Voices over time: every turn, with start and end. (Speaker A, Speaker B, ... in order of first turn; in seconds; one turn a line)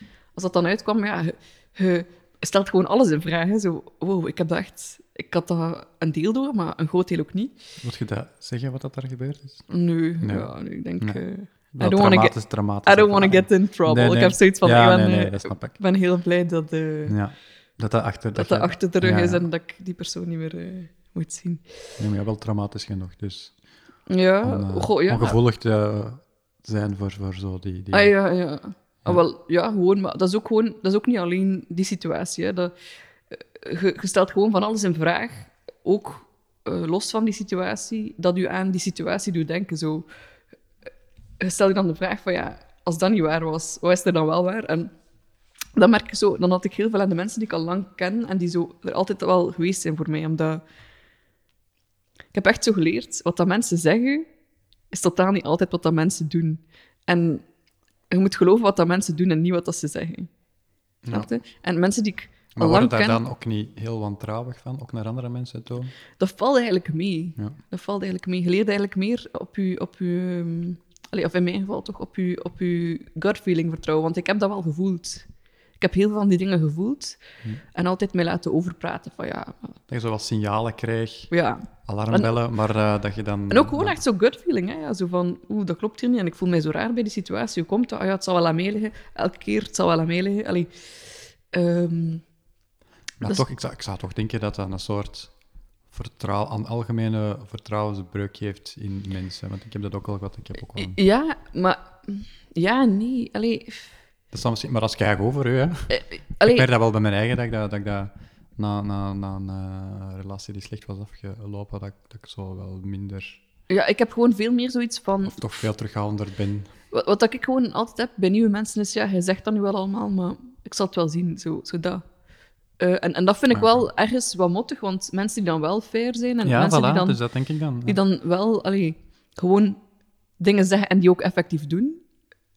Speaker A: 0.3-7.5
Speaker B: 7.8-9.7
Speaker A: 9.7-17.1
Speaker B: 10.2-11.2
Speaker B: 11.7-15.8
Speaker B: 17.1-19.4
Speaker A: 18.3-21.6
Speaker B: 22.0-23.5
Speaker A: 24.1-25.4
Speaker B: 24.4-28.1
Speaker A: 27.9-32.7
Speaker A: 33.3-40.0
Speaker A: 41.4-44.9
Speaker A: 45.7-50.6
Speaker A: 52.3-54.3
Speaker A: 54.9-57.4
Speaker A: 58.1-60.3
Speaker B: 61.0-61.3
Speaker A: 61.1-63.2
Speaker B: 62.5-65.9
Speaker A: 66.2-75.3
Speaker A: 75.8-77.2
Speaker A: 77.7-79.8
Speaker B: 79.9-81.3
Speaker A: 81.3-82.3
Speaker B: 81.8-84.0
Speaker A: 83.5-92.2
Speaker B: 93.2-95.3
Speaker B: 95.9-101.0
Speaker A: 100.8-103.9
Speaker B: 104.3-113.4
Speaker A: 105.9-106.6
Speaker A: 113.7-115.6
Speaker B: 115.2-116.7
Speaker A: 116.9-122.0
Speaker A: 122.8-127.2
Speaker B: 123.5-123.9
Speaker B: 126.4-128.0
Speaker A: 127.8-129.8
Speaker A: 130.4-132.0